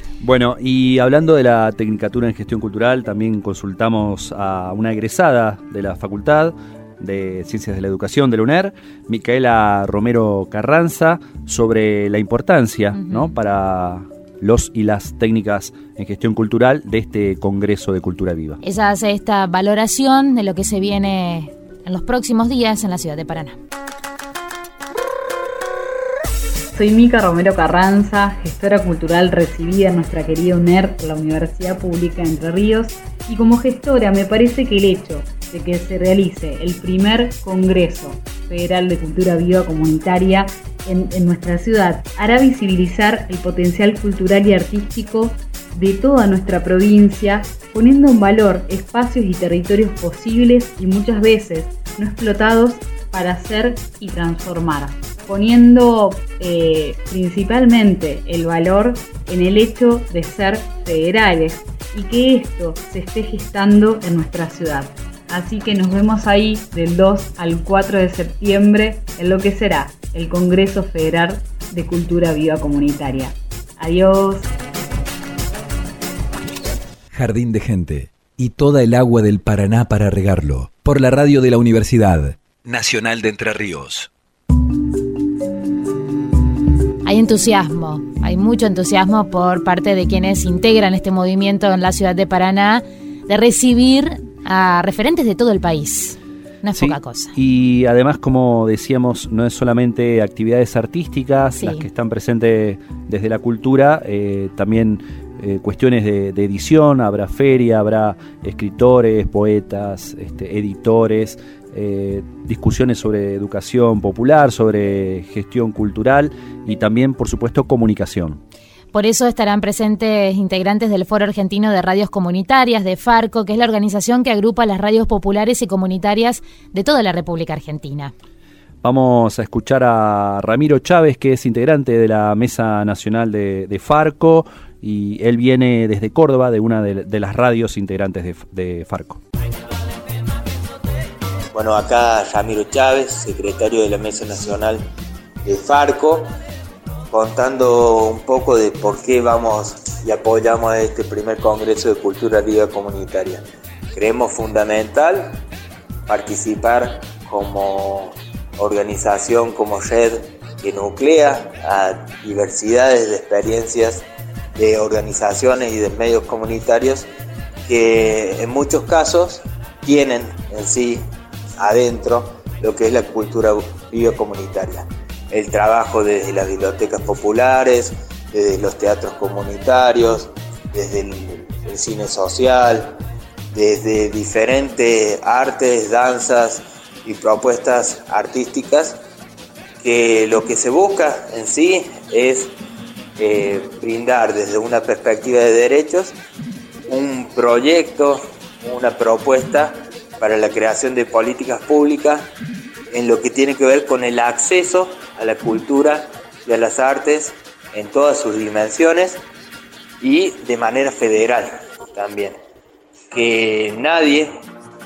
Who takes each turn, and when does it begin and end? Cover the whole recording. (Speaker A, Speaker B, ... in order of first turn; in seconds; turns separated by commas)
Speaker A: 0.2-18.6, Speaker B: 12.9-13.3, Speaker B: 18.6-23.6, Speaker C: 26.8-74.5, Speaker D: 77.1-84.1, Speaker B: 87.0-97.3, Speaker A: 96.7-118.4, Speaker B: 101.6-101.8, Speaker B: 118.9-128.1, Speaker A: 128.8-139.2, Speaker E: 141.5-144.8, Speaker E: 145.4-146.3, Speaker E: 147.1-155.4, Speaker E: 156.1-167.1, Speaker E: 167.7-171.0, Speaker E: 171.6-183.0, Speaker E: 183.5-189.0, Speaker E: 189.8-192.5, Speaker E: 193.2-196.2, Speaker E: 196.9-202.3, Speaker E: 202.9-209.2, Speaker E: 210.0-212.4, Speaker E: 213.1-214.3